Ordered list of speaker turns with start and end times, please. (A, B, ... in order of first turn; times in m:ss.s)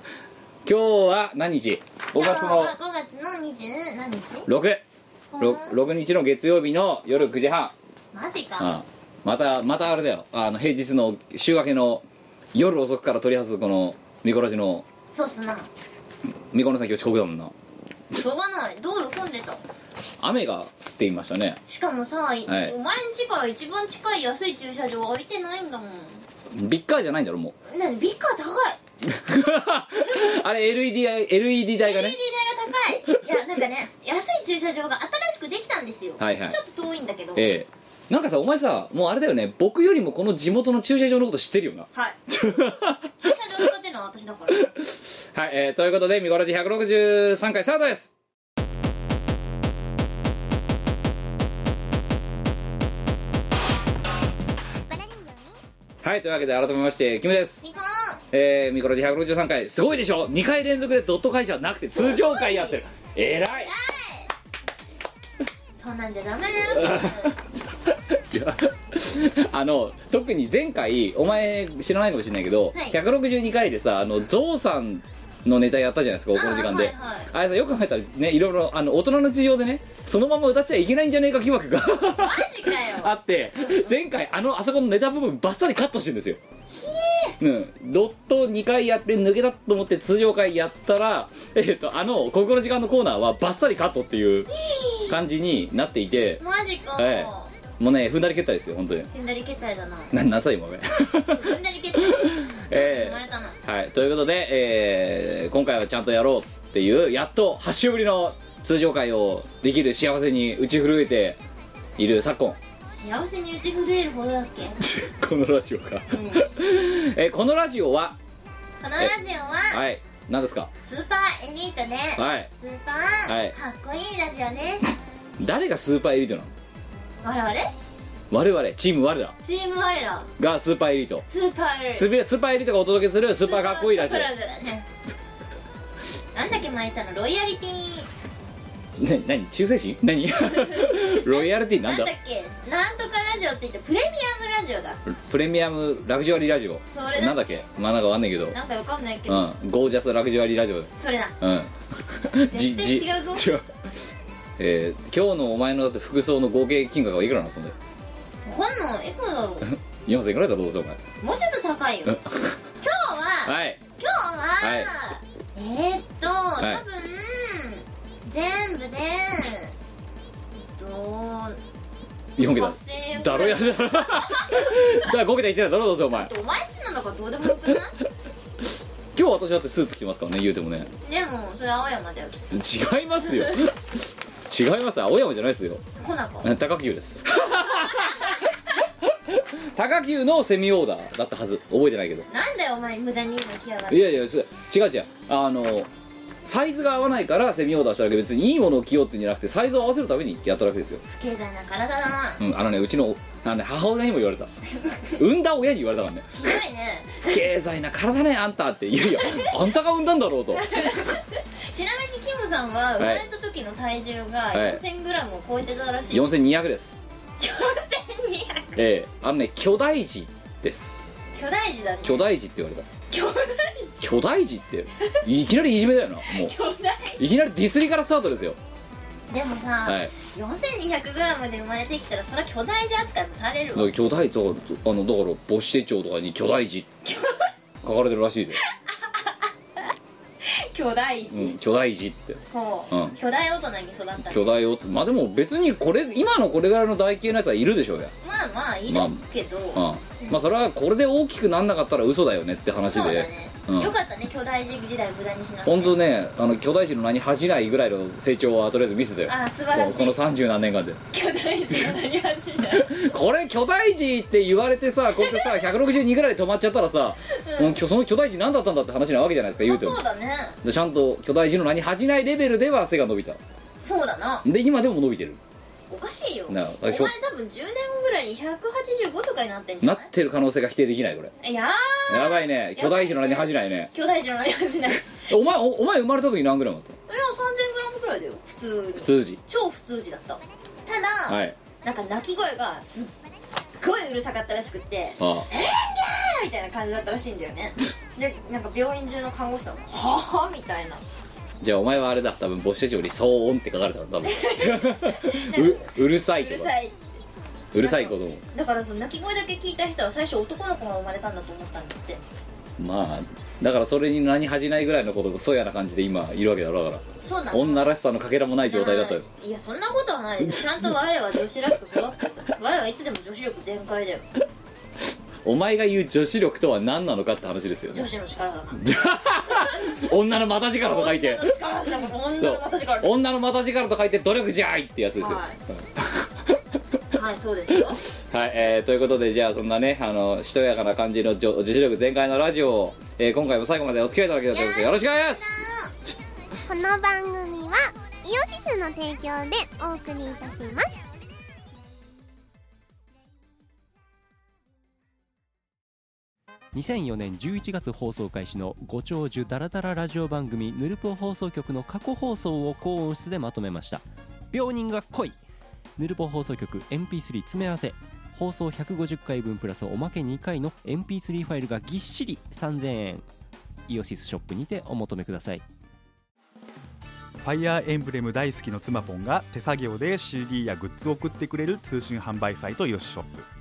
0:00.7-0:02.7 A
0:02.1-0:04.5 B
0:04.5-0:04.8 A
0:05.3-0:05.7 B
0:05.4-0:07.7 A
0:08.1-0:08.7 B
0:08.6-0:14.8 A
0:15.1-0:15.7 B
0:16.5-0:17.5 A
0:18.1-0:19.6 B
0:20.2-0:21.6 A
0:21.7-0:26.2 B
0:22.5-0:22.7 A
0:26.5-0:27.6 A
0:27.7-0:28.8 B
0:29.1-0:32.2 A
0:30.0-0:30.3 B
0:31.8-0:37.5 B
0:36.2-0:36.6 A
0:37.4-0:43.0 A
0:41.9-0:42.2 B
0:43.2-0:44.7 B
0:45.3-0:48.1 A
0:54.9-0:55.6 C
0:56.0-0:57.6 A
0:57.6-0:58.2 B
0:58.3-1:03.7 A
1:01.9-1:02.8 B
1:03.6-1:04.3 B
1:05.8-1:07.4 B
1:06.7-1:07.4 A
1:07.9-1:26.4 A
1:16.3-1:17.3 B
1:22.2-1:23.9 B
1:26.7-1:27.4 B
1:27.4-1:34.5 A
1:34.5-1:35.2 B
1:35.1-1:36.4 A
1:36.4-1:37.5 B
1:37.0-1:39.1 A
1:39.1-1:40.1 B
1:40.1-1:41.5 A
1:41.3-1:43.6 B
1:42.3-1:51.4 A
1:52.0-1:52.6 A
1:52.9-1:54.9 B
1:54.8-1:58.2 A
1:56.1-1:56.5 B
1:58.8-1:59.8 B
1:59.7-2:00.7 A
2:00.8-2:04.9 B
2:02.2-2:02.5 A
2:03.3-2:03.6 A
2:05.4-2:06.5 A
2:07.2-2:07.7 B
2:08.3-2:09.4 A
2:09.4-2:10.3 B
2:10.4-2:11.3 A
2:11.3-2:12.1 B
2:11.9-2:14.3 A
2:13.4-2:14.8 B
2:16.3-2:18.1 B
2:19.0-2:22.1 A
2:20.4-2:25.0 B
2:25.1-2:28.6 A
2:26.8-2:27.6 B
2:28.5-2:29.5 B
2:29.3-2:33.7 A
2:31.0-2:31.3 B
2:32.5-2:33.5 B
2:34.6-2:37.7 A
2:38.4-2:39.7 B
2:39.7-2:41.0 A
2:41.2-2:42.2 B
2:42.1-2:42.6 A
2:42.8-2:49.7 B
2:43.4-2:43.8 A
2:44.6-2:44.9 A
2:50.5-2:51.6 B
2:52.4-2:56.3 A
2:52.4-2:55.1 B
2:56.1-2:57.9 B
2:59.1-3:00.9 A
3:01.0-3:02.5 B
3:02.5-3:03.8 A
3:04.5-3:05.8 A
3:06.0-3:06.5 B
3:06.4-3:08.4 A
3:07.8-3:08.3 B
3:09.1-3:12.2 A
3:12.3-3:14.1 B
3:13.9-3:15.9 A
3:16.4-3:21.0 A
3:21.1-3:22.4 B
3:22.4-3:24.5 A
3:25.1-3:26.6 A
3:26.3-3:27.4 B
3:27.2-3:30.8 A
3:29.1-3:29.6 B
3:30.5-3:36.2 B
3:34.5-3:34.8 A
3:36.1-3:37.0 A
3:37.4-3:38.8 B
3:38.8-3:40.9 A
3:41.3-3:42.3 B
3:42.0-3:42.8 A
3:43.1-3:44.1 B
3:44.0-3:46.5 A
3:46.3-3:47.2 B
3:47.2-3:48.6 A
3:49.3-3:54.0 B
3:49.8-3:50.1 A
3:53.8-3:56.9 A
3:57.0-3:57.5 B
3:57.8-3:58.6 A
3:58.6-4:01.6 B
4:01.3-4:03.2 A
4:02.5-4:04.6 B
4:04.3-4:08.1 A
4:08.2-4:10.4 B
4:08.9-4:09.2 A
4:09.7-4:13.9 A
4:12.8-4:16.0 B
4:15.7-4:21.0 A
4:19.3-4:20.2 B
4:21.1-4:22.9 B
4:22.7-4:30.0 A
4:25.2-4:25.6 B
4:27.3-4:27.8 B
4:29.6-4:30.6 B
4:30.6-4:33.4 A
4:33.8-4:34.5 B
4:34.4-4:35.4 A
4:35.9-4:40.1 B
4:36.5-4:37.1 A
4:39.8-4:41.3 A
4:41.4-4:45.6 B
4:42.1-4:43.9 A
4:45.3-4:47.0 A
4:47.1-4:53.1 B
4:49.0-4:49.4 A
4:51.3-4:51.6 A
4:53.8-5:01.0 B
4:55.2-4:55.5 A
5:01.6-5:06.7 A
5:04.2-5:07.1 B
5:07.7-5:08.4 A
5:07.8-5:12.2 B
5:12.8-5:19.2 A
5:17.2-5:17.9 B
5:18.7-5:24.3 B
5:25.4-5:28.1 A
5:27.9-5:28.8 B
5:28.8-5:31.5 A
5:30.8-5:33.2 B
5:32.4-5:36.6 A
5:35.2-5:35.6 B
5:37.1-5:38.0 B
5:38.3-5:45.6 A
5:44.5-5:45.9 B
5:46.7-5:51.0 C
5:56.7-6:05.4 D
6:06.0-6:13.2 D
6:13.9-6:15.6 D
6:17.4-6:23.5 E